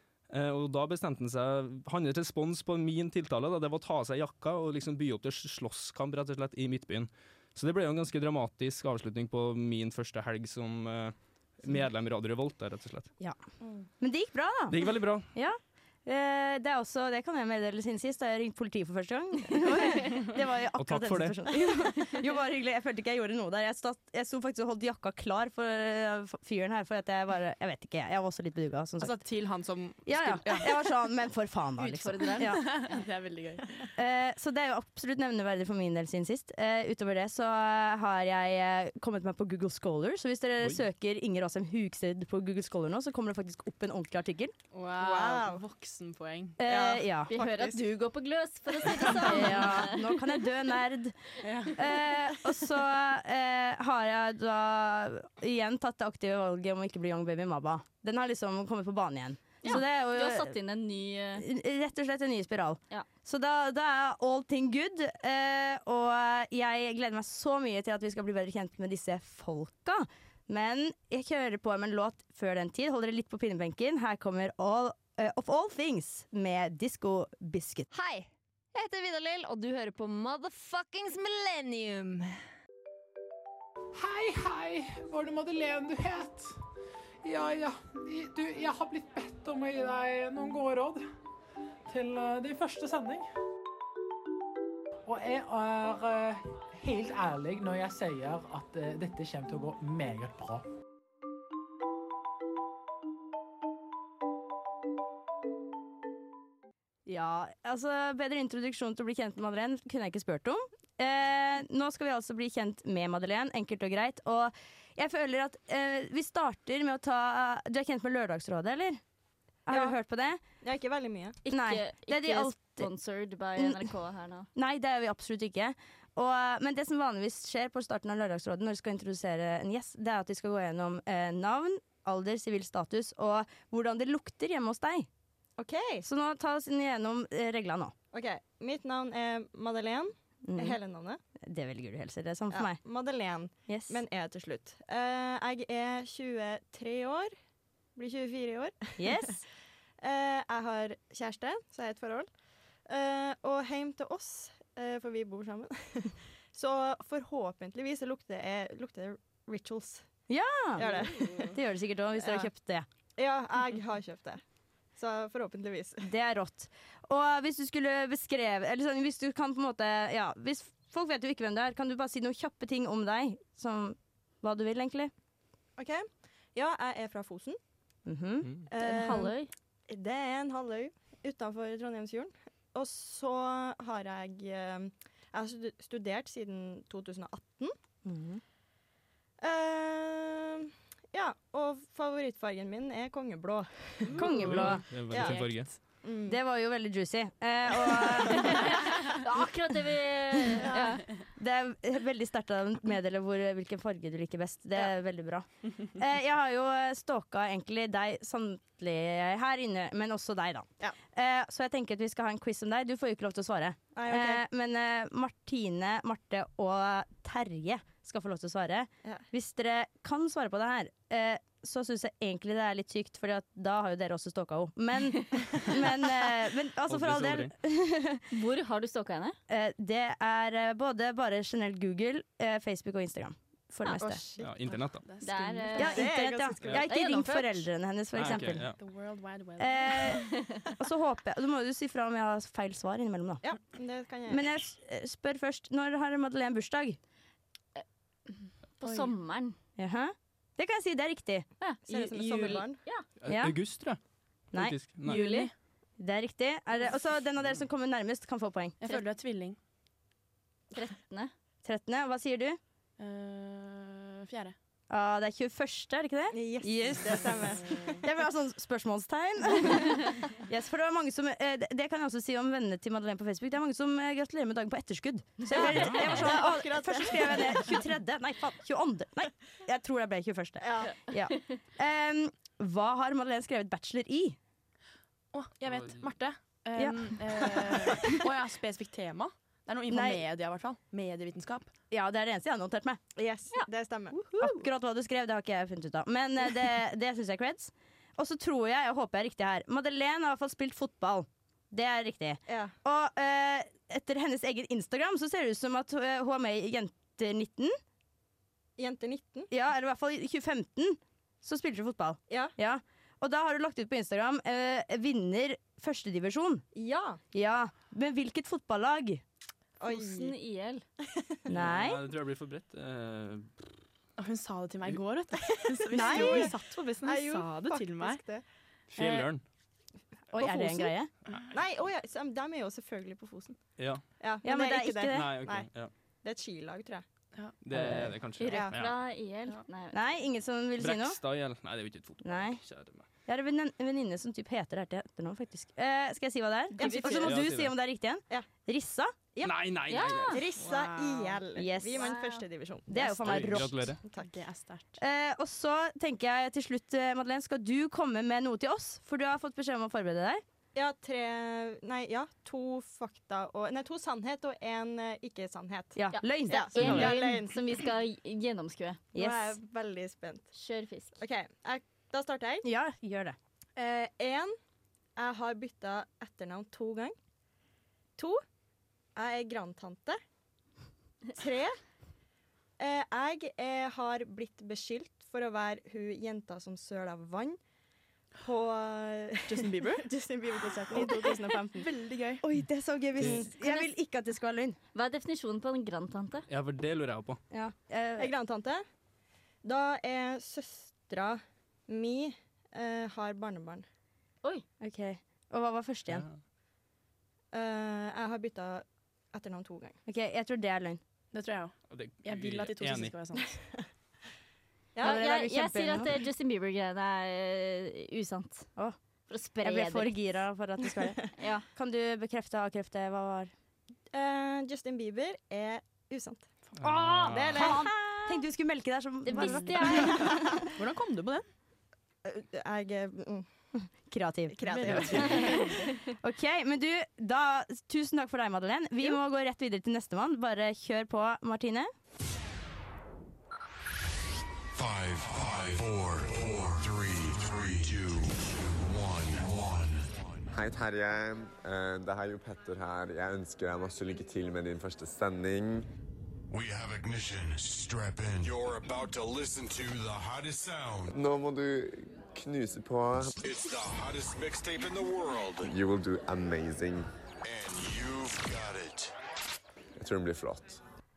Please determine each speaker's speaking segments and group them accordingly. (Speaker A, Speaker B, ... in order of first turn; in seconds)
Speaker A: 0.3-13.1, 14.7-15.3, 20.8-21.4, 194.4-195.7, 226.9-227.5, 234.4-235.0, 238.1-238.8, 253.2-254.0, 254.5-255.2, 275.8-276.0, 285.6-286.1, 321.5-323.5, 328.9-329.4, 335.1-335.9, 337.6-338.9, 340.8-343.0, 347.2-347.7, 349.4-350.4, 353.2-354.0, 393.2-393.4, 396.5-397.4, 406.1-406.4, 411.9-413.2, 426.8-427.7
Speaker B: 14.0-29.2, 30.1-32.6, 34.0-44.5, 46.6-47.3, 49.1-51.2, 51.8-60.6, 61.4-77.9, 107.0-119.0, 119.7-120.4, 121.5-122.9, 123.5-123.9, 124.5-135.1, 136.0-137.9, 140.5-140.8, 141.4-142.8, 143.7-144.0, 149.0-149.4, 160.3-162.8, 166.0-175.1, 178.1-178.5, 188.0-188.4, 194.2-195.5, 196.2-198.7, 200.5-228.2, 229.5-234.2, 235.7-238.7, 239.6-240.2, 240.8-243.5, 244.3-247.0, 249.8-251.5, 253.2-253.6, 254.5-255.4, 256.0-258.8, 261.6-262.6, 264.9-267.2, 268.0-284.4, 286.8-287.1, 289.9-290.2, 291.9-293.0, 294.4-307.8, 309.5-316.6, 317.3-319.2, 321.5-322.0, 325.9-326.5, 330.3-331.1, 334.4-335.3, 337.7-338.1, 339.9-341.2, 342.2-342.6, 343.3-349.1, 351.5-352.0, 352.9-353.8, 355.0-360.4, 365.9-367.2, 369.1-369.6, 372.6-373.4, 390.9-391.7, 392.4-394.8, 397.5-398.3, 404.8-406.3, 410.1-411.0, 415.0-416.1, 419.6-423.5, 426.8-430.7, 434.1-435.6, 436.2-441.9
Speaker C: 29.0-30.9, 32.4-33.9, 44.7-46.6, 51.4-51.8, 160.8-161.5, 234.6-236.0, 238.8-240.2, 248.8-249.1, 255.1-255.5, 258.8-259.6, 263.0-264.6, 285.3-291.7, 324.2-328.2, 350.5-351.4, 354.1-355.0, 389.5-390.1, 390.9-392.4, 411.3-411.7, 412.2-413.6, 429.4-429.6, 430.8-431.4, 434.7-435.6
Speaker D: 31.8-33.0, 47.3-50.2, 59.6-61.5, 121.4-124.5, 178.8-179.5, 198.3-201.0, 228.3-229.4, 235.2-236.1, 236.7-237.6, 240.3-240.6, 247.8-249.6, 251.6-253.0, 255.1-255.4, 260.7-261.3, 319.8-320.8, 338.4-340.0, 346.7-347.3, 349.9-350.4, 351.9-352.4, 366.1-369.0, 370.5-371.2, 393.6-393.9, 394.9-396.4, 415.0-418.7, 419.3-420.2, 421.4-421.6, 429.3-430.3, 435.2-435.7
Speaker E: 45.0-45.6, 46.6-47.9, 119.7-119.9, 120.6-121.4, 135.6-136.1, 138.1-141.2, 142.5-147.3, 147.9-149.4, 150.0-152.3, 152.9-160.1, 160.8-161.5, 162.2-162.5, 163.2-164.4, 164.9-166.1, 175.8-177.6, 178.7-179.3, 179.9-187.7, 189.4-196.4, 200.6-200.9, 213.9-214.4, 233.9-234.4, 235.8-236.9, 243.4-244.4, 251.9-252.8, 266.3-268.0, 275.5-277.8, 280.6-280.9, 293.1-294.4, 302.5-302.7, 308.8-309.5, 316.7-317.2, 319.8-320.3, 321.0-321.5, 325.5-328.4, 330.4-330.7, 331.5-333.6, 334.2-335.7, 336.2-337.0, 338.4-338.7, 346.8-347.3, 350.3-353.2, 354.1-354.4, 360.7-367.8, 369.1-370.5, 371.2-372.7, 373.8-374.5, 375.1-377.1, 379.1-380.2, 381.3-381.8, 382.8-387.6, 388.4-391.9, 398.2-398.8, 399.6-403.8, 407.5-410.0, 414.9-415.2, 424.1-426.5, 427.3-428.2, 429.9-430.6, 432.2-433.5, 434.5-435.9
Speaker F: 77.9-82.3
Speaker G: 83.9-86.5, 87.2-91.0, 91.9-93.3, 95.0-100.7
Speaker H: 444.7-450.4, 456.5-461.1, 463.3-465.7, 467.4-469.1
Speaker I: 450.5-455.9, 461.1-463.5, 465.6-467.1, 470.0-470.8